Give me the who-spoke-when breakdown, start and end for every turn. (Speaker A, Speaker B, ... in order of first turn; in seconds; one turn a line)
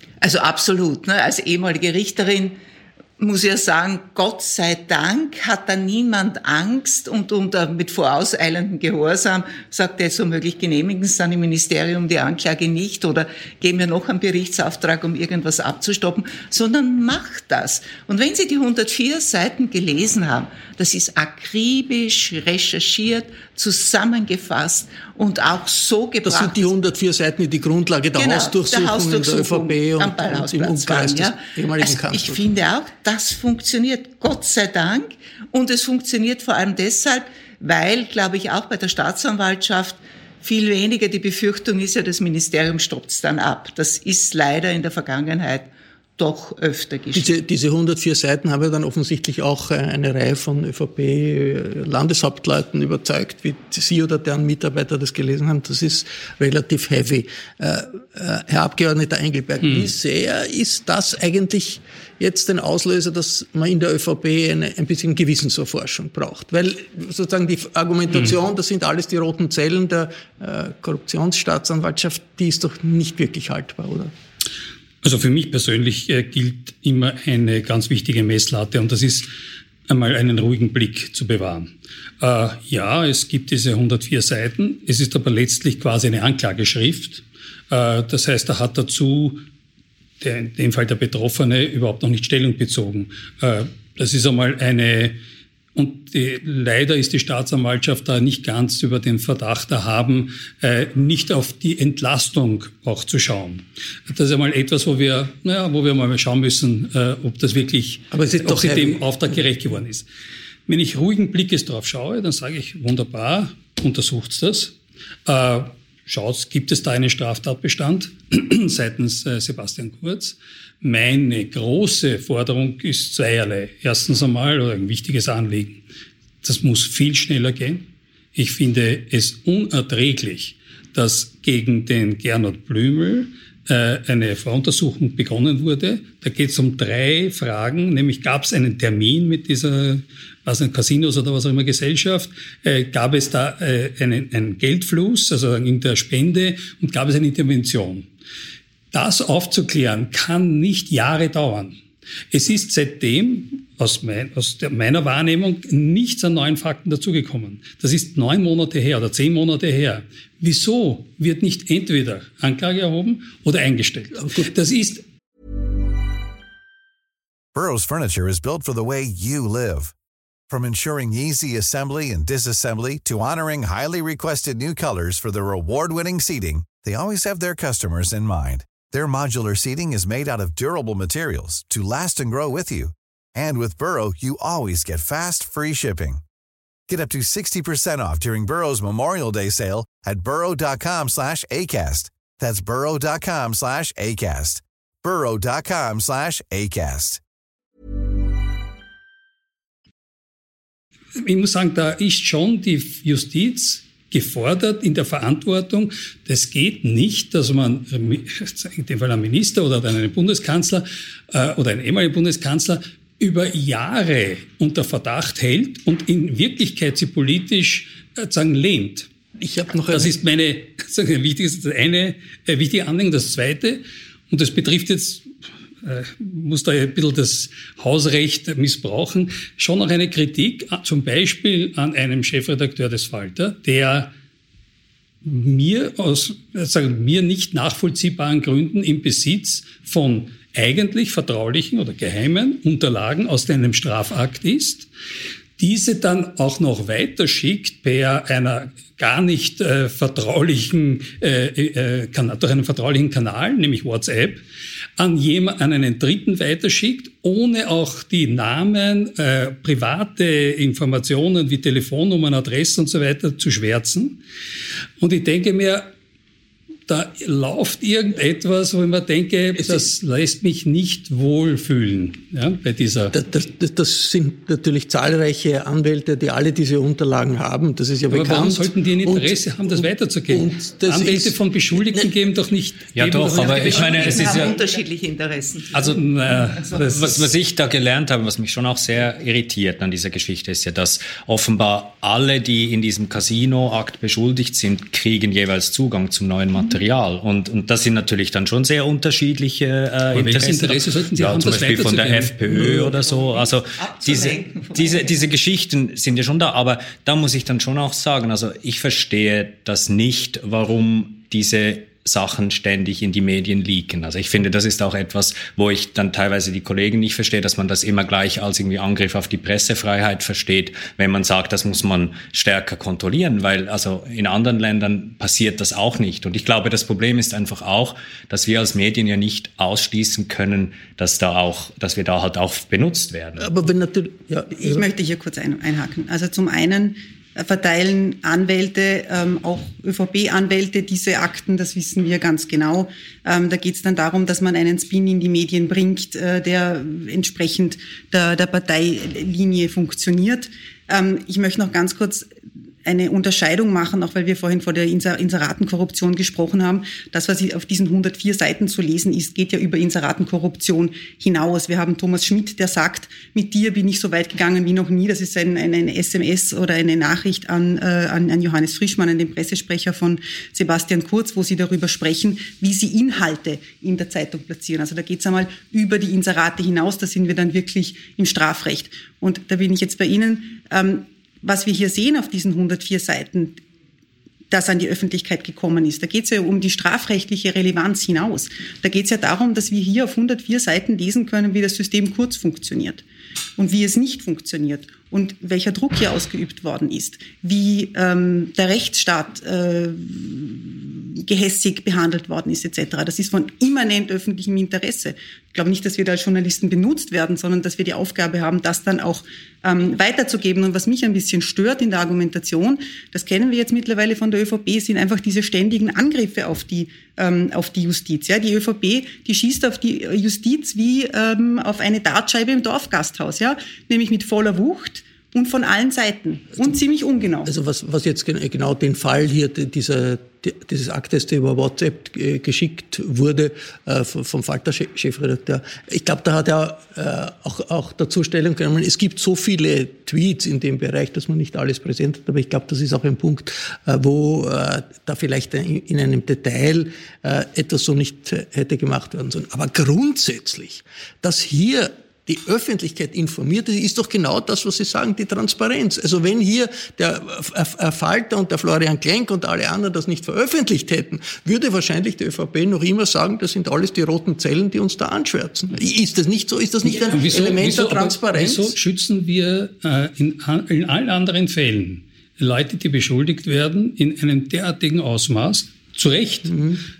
Speaker A: 0.2-2.6
Speaker A: 3.2-26.6
Speaker B: 26.2-32.5
Speaker A: 28.1-47.3
Speaker B: 47.1-74.1
Speaker C: 59.6-59.9
Speaker C: 75.0-79.3
Speaker C: 79.9-89.4
Speaker C: 90.2-95.2
Speaker C: 95.8-110.1
Speaker B: 108.1-109.5
Speaker C: 110.7-114.7
Speaker C: 115.3-125.8
Speaker C: 126.4-148.1
Speaker C: 148.9-151.8
Speaker C: 152.3-165.0
Speaker B: 164.1-164.5
Speaker D: 167.5-169.9
Speaker D: 170.5-186.2
Speaker D: 186.9-197.2
Speaker C: 201.2-219.1
Speaker B: 219.4-220.1
Speaker C: 219.9-225.2
Speaker C: 225.8-234.1
Speaker C: 235.2-244.9
Speaker C: 245.6-254.4
Speaker C: 255.0-264.2
Speaker C: 265.0-265.9
Speaker C: 266.9-273.1
Speaker B: 269.6-269.9
Speaker B: 273.1-282.1
Speaker C: 278.1-284.5
Speaker E: 282.9-284.5
Speaker A: 283.5-286.0
Speaker E: 285.7-286.1
Speaker C: 285.9-287.3
Speaker E: 286.8-333.5
Speaker C: 300.1-302.4
Speaker A: 302.8-305.3
Speaker B: 333.4-334.9
Speaker F: 334.6-352.3
Speaker F: 352.9-383.6
Speaker F: 384.5-393.0
Speaker F: 393.6-427.5
Speaker B: 427.5-468.8
Speaker C: 467.0-476.5
Speaker B: 476.5-476.8